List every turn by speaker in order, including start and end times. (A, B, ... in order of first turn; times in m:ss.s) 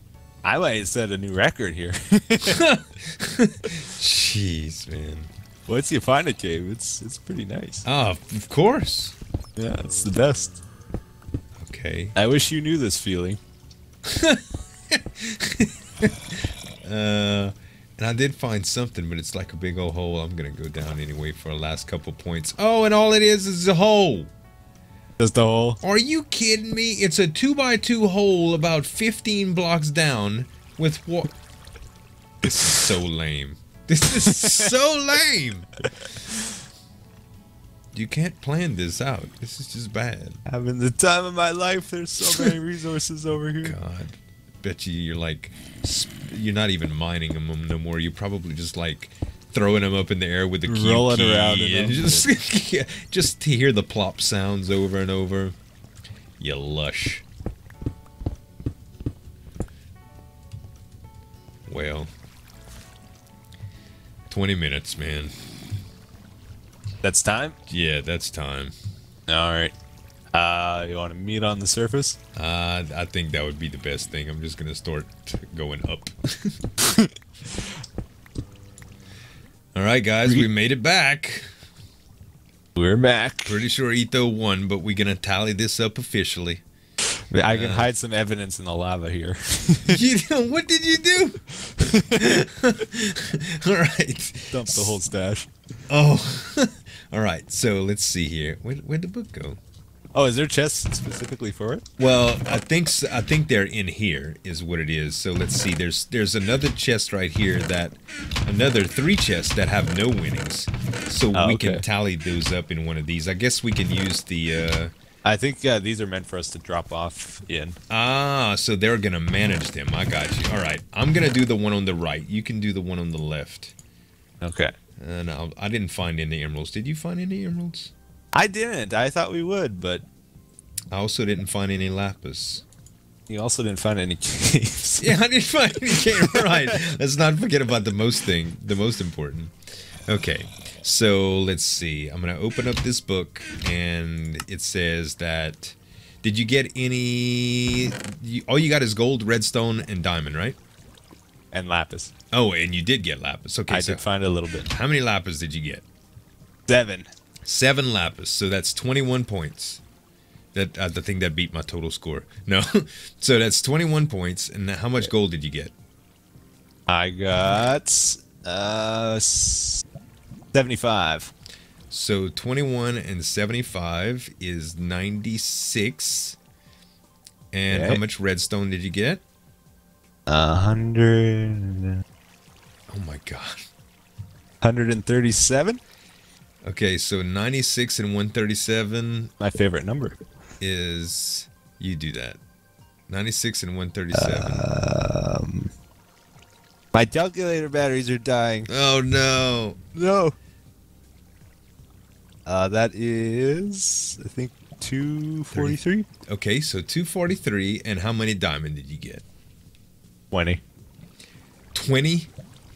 0:00.4-0:02.7 A
0:02.4-0:05.3 B
0:05.7-0:07.9 A
0:07.8-0:09.2 B
0:09.6-0:10.6 A
0:11.6-0:12.2 B
0:12.1-0:13.4 A
0:14.1-0:24.3 B
0:25.2-0:25.8 A
0:25.8-0:31.3 B
0:32.4-0:35.9 B
0:32.4-0:32.9 A
0:34.2-0:34.6 A
0:37.9-0:40.4 B
0:40.4-0:43.8 A
0:42.3-0:42.5 B
0:43.6-0:55.6 B
0:50.6-0:52.3 A
0:56.4-0:57.2 B
1:01.7-1:02.1 B
1:04.3-1:05.3 B
1:07.0-1:07.6 A
1:07.7-1:08.7 B
1:09.3-1:09.7 A
1:10.3-1:12.2 A
1:12.4-1:16.6 B
1:16.8-1:17.6 A
1:19.7-1:21.5 B
1:22.8-1:23.6 A
1:23.4-1:26.6 B
1:27.3-1:30.0 A
1:27.5-1:27.9 B
1:29.9-1:31.4 B
1:31.6-1:32.2 A
1:31.9-1:35.0 B
1:34.5-1:35.5 A
1:35.9-1:39.6 B
1:40.1-1:41.9 A
1:42.0-1:54.9 B
1:51.3-1:51.8 A
1:55.2-1:57.8 A
1:57.9-2:03.7 B
2:04.4-2:04.7 A
2:05.0-2:07.9 B
2:08.3-2:10.0 A
2:10.9-2:12.6 B
2:13.3-2:15.2 A
2:15.0-2:19.6 B
2:15.9-2:16.8 A
2:20.1-2:30.6 B
2:31.5-2:32.1 A
2:32.3-2:34.0 B
2:33.7-2:34.7 A
2:34.7-2:35.8 B
2:36.7-2:37.1 A
2:37.4-2:39.8 B
2:40.5-2:45.7 B
2:46.9-2:49.8 A
2:50.5-2:51.3 A
2:51.9-2:56.4 B
2:57.5-2:59.2 B
2:57.7-2:58.0 A
3:00.3-3:02.0 A
3:02.9-3:03.7 B
3:04.6-3:05.8 A
3:06.6-3:09.3 B
3:09.4-3:10.2 A
3:10.6-3:12.4 B
3:13.1-3:14.6 B
3:14.1-3:15.7 A
3:16.9-3:18.7 A
3:18.7-3:19.8 B
3:19.9-3:20.4 A
3:22.4-3:26.1 A
3:25.5-3:29.2 B
3:30.3-3:30.6 A
3:31.7-3:32.3 B